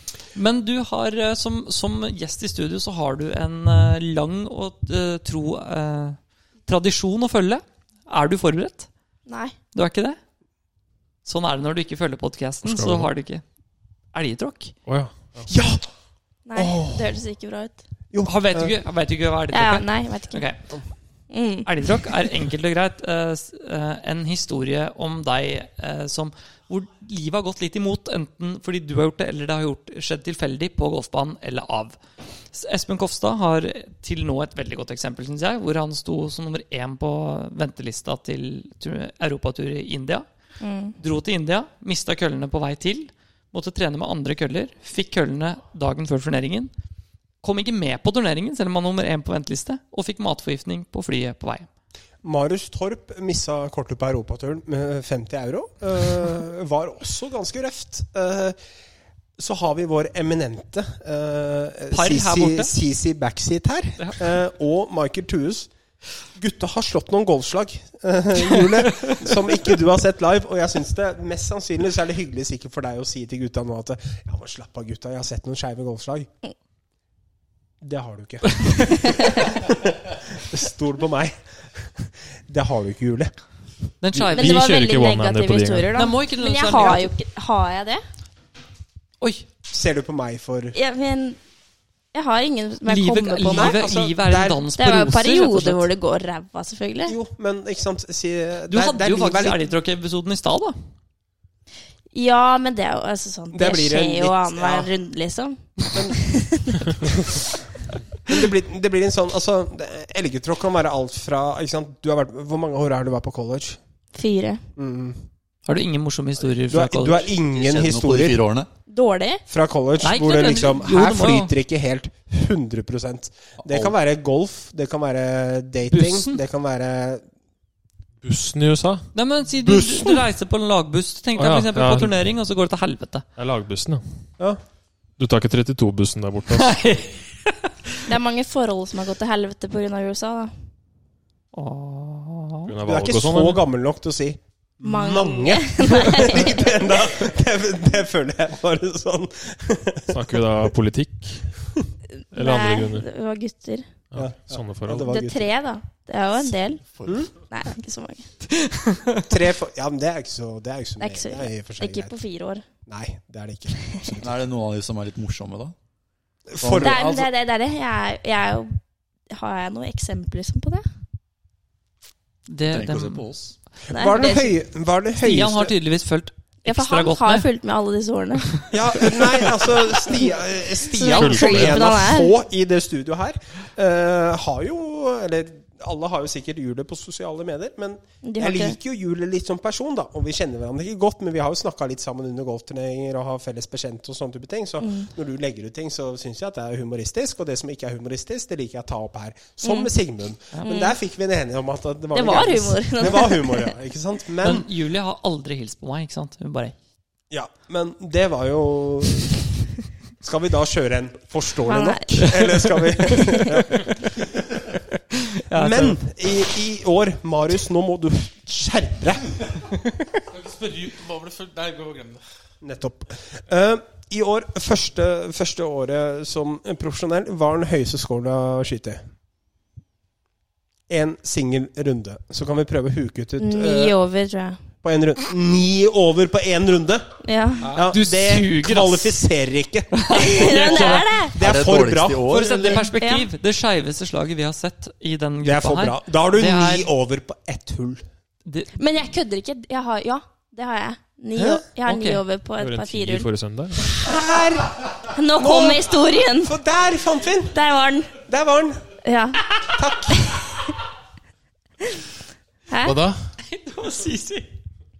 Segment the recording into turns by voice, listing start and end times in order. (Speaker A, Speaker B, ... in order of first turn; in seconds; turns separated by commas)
Speaker A: 0.3-8.9, Speaker B: 9.3-9.5, Speaker A: 9.7-10.2, Speaker A: 11.2-13.4, Speaker C: 12.6-13.1, Speaker A: 14.1-14.7, Speaker C: 14.8-15.5, Speaker D: 15.5-15.8, Speaker B: 16.5-17.8, Speaker D: 16.6-17.1, Speaker D: 18.1-18.7, Speaker A: 18.2-20.6, Speaker B: 19.5-20.4, Speaker B: 21.3-21.7, Speaker A: 21.6-32.0, Speaker A: 32.5-40.2, Speaker B: 40.6-41.0, Speaker A: 41.0-46.7, Speaker A: 47.4-51.7, Speaker D: 52.2-58.5, Speaker D: 59.4-65.7, Speaker A: 61.9-62.7, Speaker D: 66.3-76.3, Speaker A: 68.4-69.2, Speaker D: 77.8-83.3, Speaker B: 79.1-79.4, Speaker A: 84.0-84.6, Speaker C: 84.1-85.9, Speaker B: 84.3-88.0, Speaker A: 85.9-87.1, Speaker A: 89.2-89.5, Speaker D: 89.7-90.8, Speaker B: 90.7-91.4, Speaker B: 92.1-93.8, Speaker A: 92.8-95.9, Speaker D: 93.5-94.6, Speaker B: 94.8-97.2, Speaker D: 97.1-99.6, Speaker A: 98.7-100.8, Speaker B: 102.1-107.0, Speaker D: 103.5-104.9, Speaker D: 105.9-106.2, Speaker D: 107.0-107.4, Speaker D: 108.2-113.8, Speaker B: 114.1-114.6, Speaker D: 114.8-115.2, Speaker A: 115.6-117.3, Speaker D: 116.7-118.4, Speaker E: 117.5-118.7, Speaker B: 118.9-119.4, Speaker D: 119.5-127.2, Speaker A: 120.0-121.5, Speaker E: 123.7-123.9, Speaker A: 125.9-126.4, Speaker C: 128.2-129.1, Speaker A: 129.1-133.2, Speaker C: 131.3-132.2, Speaker C: 133.3-134.2, Speaker C: 135.2-136.8, Speaker A: 136.5-137.7, Speaker B: 138.1-140.5, Speaker A: 141.5-142.7, Speaker C: 142.7-143.6, Speaker D: 142.8-150.2, Speaker B: 144.8-146.8, Speaker C: 150.1-151.5, Speaker B: 152.3-153.9, Speaker C: 152.3-153.1, Speaker C: 154.1-155.1, Speaker D: 154.2-155.5, Speaker B: 155.1-158.2, Speaker A: 158.5-159.2, Speaker D: 159.2-162.1, Speaker B: 161.0-162.6, Speaker D: 162.8-164.3, Speaker E: 164.2-165.7, Speaker D: 166.5-167.2, Speaker E: 166.6-167.2, Speaker B: 166.8-168.8, Speaker B: 169.3-170.8, Speaker A: 172.5-173.3, Speaker F: 172.8-173.3, Speaker D: 173.9-175.7, Speaker B: 173.9-174.5, Speaker A: 175.2-177.5, Speaker B: 176.6-178.6, Speaker D: 178.7-204.7, Speaker B: 180.9-182.3, Speaker C: 181.2-181.8, Speaker B: 188.2-188.8, Speaker B: 194.8-195.1, Speaker B: 199.6-199.9, Speaker B: 200.6-200.9, Speaker B: 202.1-203.7, Speaker A: 204.4-206.8, Speaker D: 207.3-209.5, Speaker D: 210.2-214.6, Speaker B: 211.7-212.3, Speaker A: 214.9-216.0, Speaker D: 215.5-219.4, Speaker F: 220.3-222.2, Speaker D: 222.6-229.0, Speaker D: 230.9-233.9, Speaker B: 233.4-234.6, Speaker D: 234.8-237.1, Speaker B: 237.2-237.7, Speaker D: 237.7-242.9, Speaker A: 237.7-239.2, Speaker A: 239.9-241.2, Speaker B: 240.1-241.4, Speaker E: 241.4-242.7, Speaker A: 242.3-246.9, Speaker B: 243.0-243.3, Speaker D: 245.4-248.0, Speaker A: 248.4-248.7, Speaker B: 248.8-253.3, Speaker D: 251.4-251.6, Speaker A: 251.8-252.2, Speaker C: 252.6-253.9, Speaker D: 253.9-257.5, Speaker B: 255.1-256.5, Speaker B: 257.5-258.1, Speaker D: 258.2-258.8, Speaker B: 259.0-259.4, Speaker D: 259.7-260.4, Speaker B: 260.2-260.6, Speaker B: 262.7-263.0, Speaker F: 262.8-263.2, Speaker A: 263.4-264.5